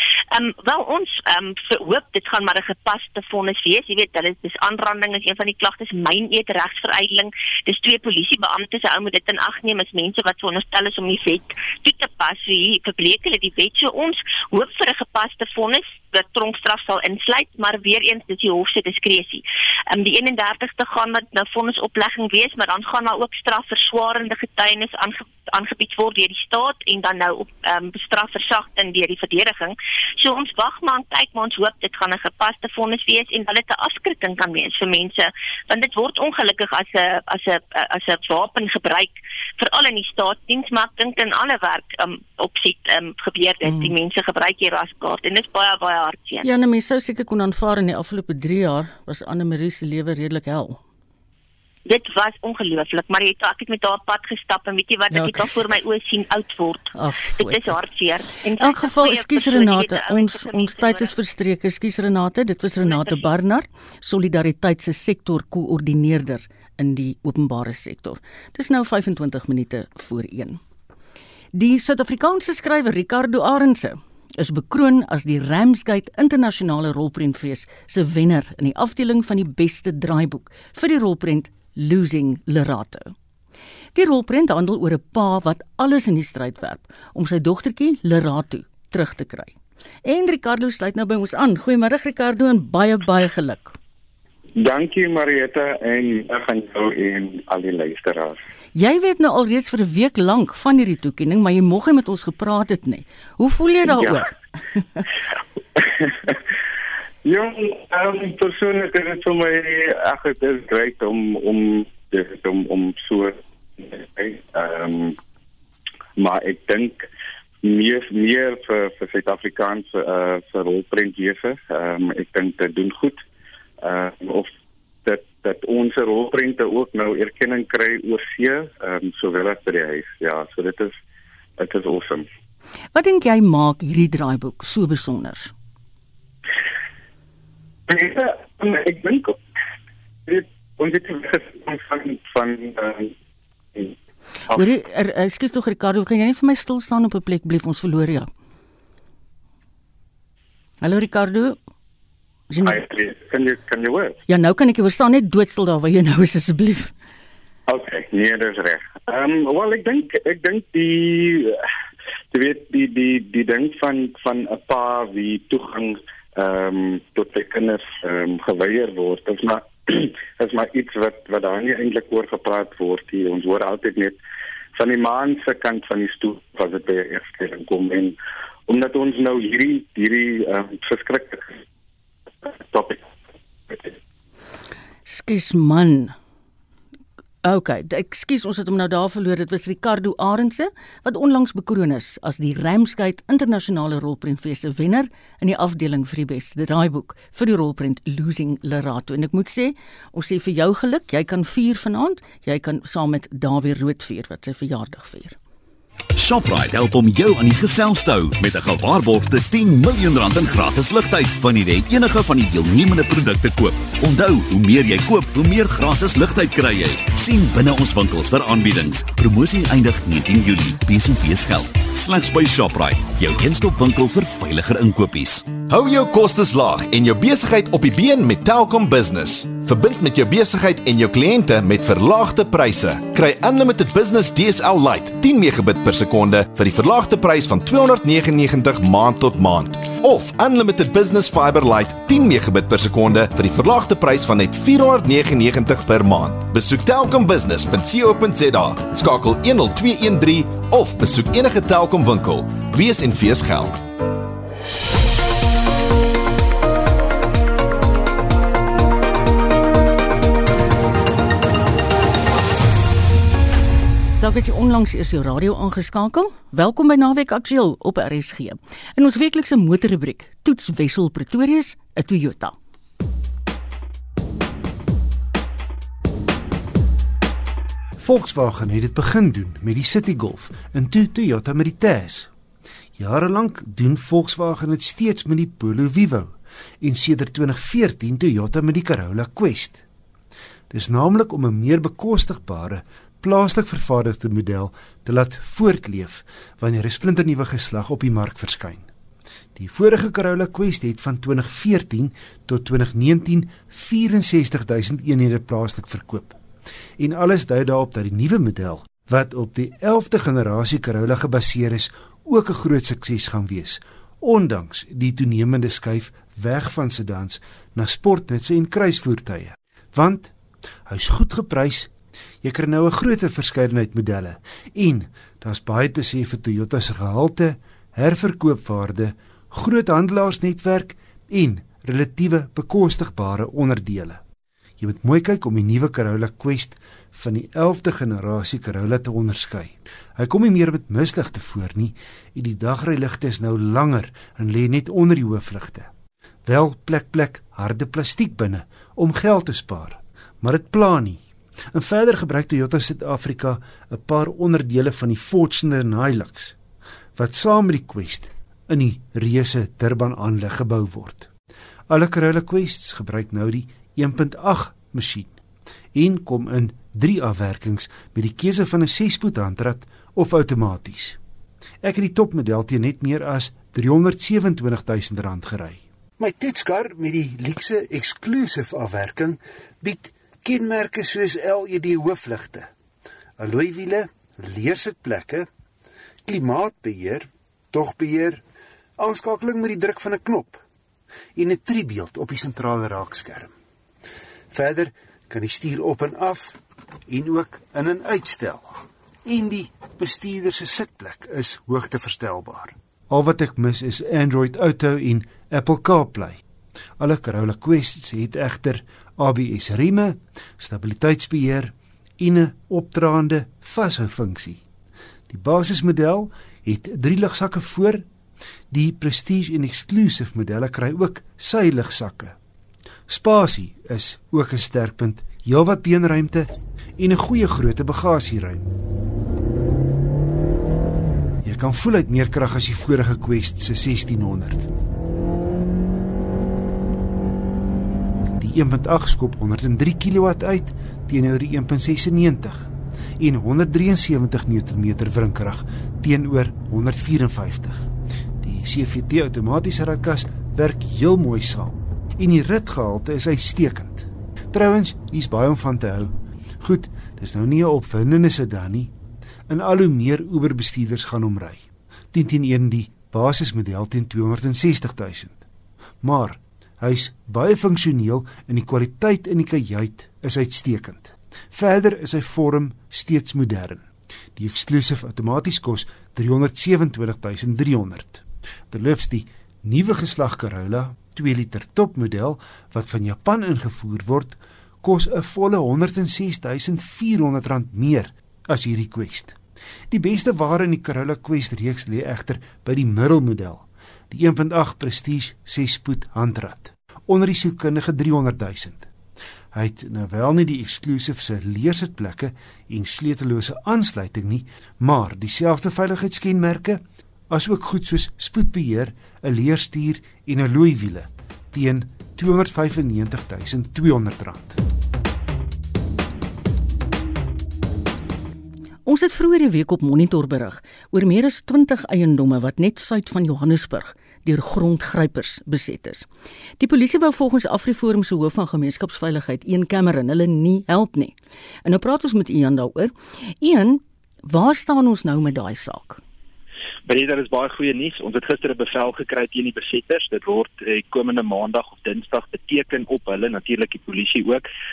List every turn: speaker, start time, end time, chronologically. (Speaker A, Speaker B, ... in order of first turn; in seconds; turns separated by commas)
Speaker A: 0.3-46.5, Speaker B: 43.6-43.9, Speaker B: 46.4-50.8, Speaker A: 51.9-61.1, Speaker B: 55.1-55.5, Speaker B: 57.0-57.8, Speaker B: 58.6-70.6, Speaker A: 62.8-63.2, Speaker B: 71.5-83.1, Speaker B: 84.0-93.8, Speaker C: 94.6-98.4, Speaker B: 98.8-104.3, Speaker C: 103.9-104.2, Speaker C: 105.8-106.3, Speaker C: 107.2-115.2, Speaker C: 116.2-117.1, Speaker C: 117.6-123.2, Speaker C: 123.8-124.5, Speaker C: 125.0-130.9, Speaker C: 131.6-132.3, Speaker B: 132.9-135.5, Speaker C: 137.9-139.4, Speaker C: 140.3-143.1, Speaker B: 144.5-148.3, Speaker B: 150.8-151.6, Speaker B: 152.5-152.8, Speaker C: 152.6-154.2, Speaker B: 154.3-156.9, Speaker C: 157.7-161.6, Speaker C: 162.3-174.2, Speaker C: 174.8-178.2, Speaker C: 178.7-181.6, Speaker C: 182.4-183.1, Speaker B: 185.1-186.2, Speaker B: 187.4-205.4, Speaker D: 206.2-225.5, Speaker E: 225.7-253.8, Speaker B: 264.2-272.5, Speaker F: 278.0-282.3, Speaker F: 283.0-289.8, Speaker F: 290.7-298.9, Speaker F: 299.6-306.4, Speaker F: 307.0-320.3, Speaker F: 320.9-321.9, Speaker F: 322.4-334.2, Speaker F: 334.8-345.9, Speaker F: 346.5-351.2, Speaker F: 351.7-356.6, Speaker F: 357.2-361.3, Speaker F: 361.9-365.4, Speaker F: 365.9-371.2, Speaker F: 371.8-382.7, Speaker F: 383.4-385.5, Speaker F: 386.3-388.4, Speaker F: 389.0-390.6, Speaker F: 391.4-393.5, Speaker F: 394.5-406.4, Speaker F: 407.0-414.6, Speaker F: 415.3-418.1, Speaker F: 418.7-422.4, Speaker F: 423.1-428.6, Speaker F: 431.4-434.7, Speaker F: 438.4-442.7, Speaker F: 443.2-447.9, Speaker F: 448.4-458.9, Speaker F: 459.5-465.4, Speaker F: 466.0-489.4, Speaker F: 489.9-498.9, Speaker F: 499.5-514.6, Speaker B: 518.9-526.1, Speaker B: 526.6-536.0, Speaker G: 536.9-544.4